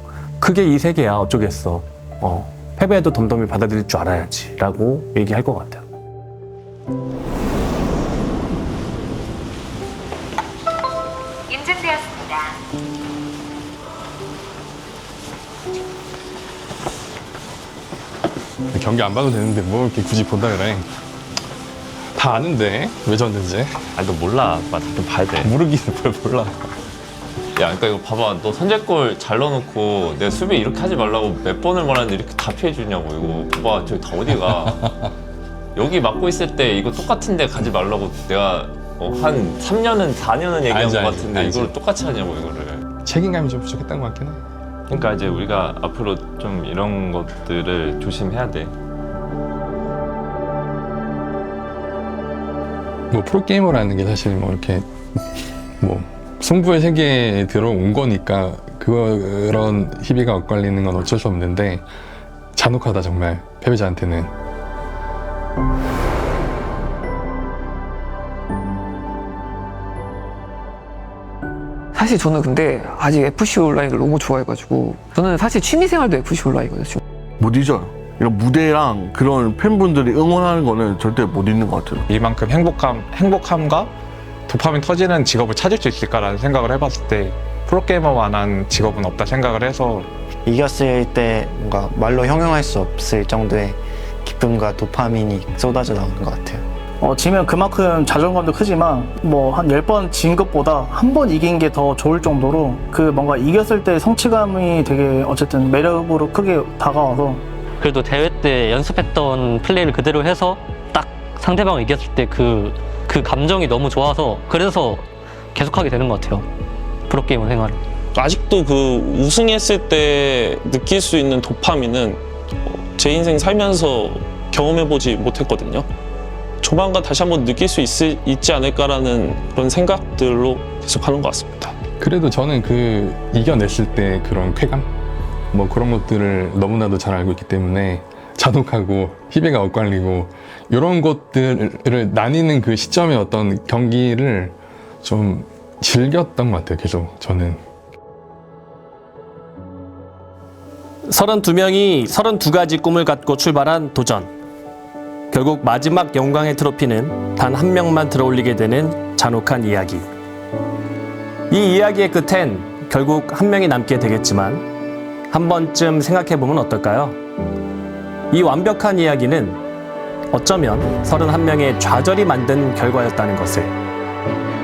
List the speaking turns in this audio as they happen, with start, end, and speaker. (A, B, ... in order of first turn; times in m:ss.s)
0:00.4-0:05.9 A
0:18.7-0:20.9 B
0:22.1-0:23.8 B
0:23.9-0:25.5 C
0:25.4-0:26.6 B
0:27.6-0:34.8 C
0:34.3-0:35.0 B
0:35.8-0:42.8 C
0:40.7-0:41.8 B
0:43.0-0:44.4 B
0:44.9-0:48.7 C
0:53.1-0:54.8 B
0:55.8-1:01.9 B
1:02.5-1:04.3 B
1:11.9-1:17.0 D
1:17.4-1:22.0 E
1:22.1-1:23.9 F
1:24.5-1:30.1 F
1:30.4-1:36.6 G
1:37.0-1:47.4 H
1:47.8-1:55.0 I
1:55.5-1:56.4 I
1:57.1-1:57.8 I
1:58.1-2:05.8 J
2:06.6-2:11.8 J
2:12.0-2:14.9 B
2:15.5-2:27.6 B
2:31.1-2:34.3 A
2:35.3-2:40.0 A
2:41.5-2:44.6 A
2:45.3-2:47.2 A
2:48.3-2:49.6 A
2:50.3-2:53.7 A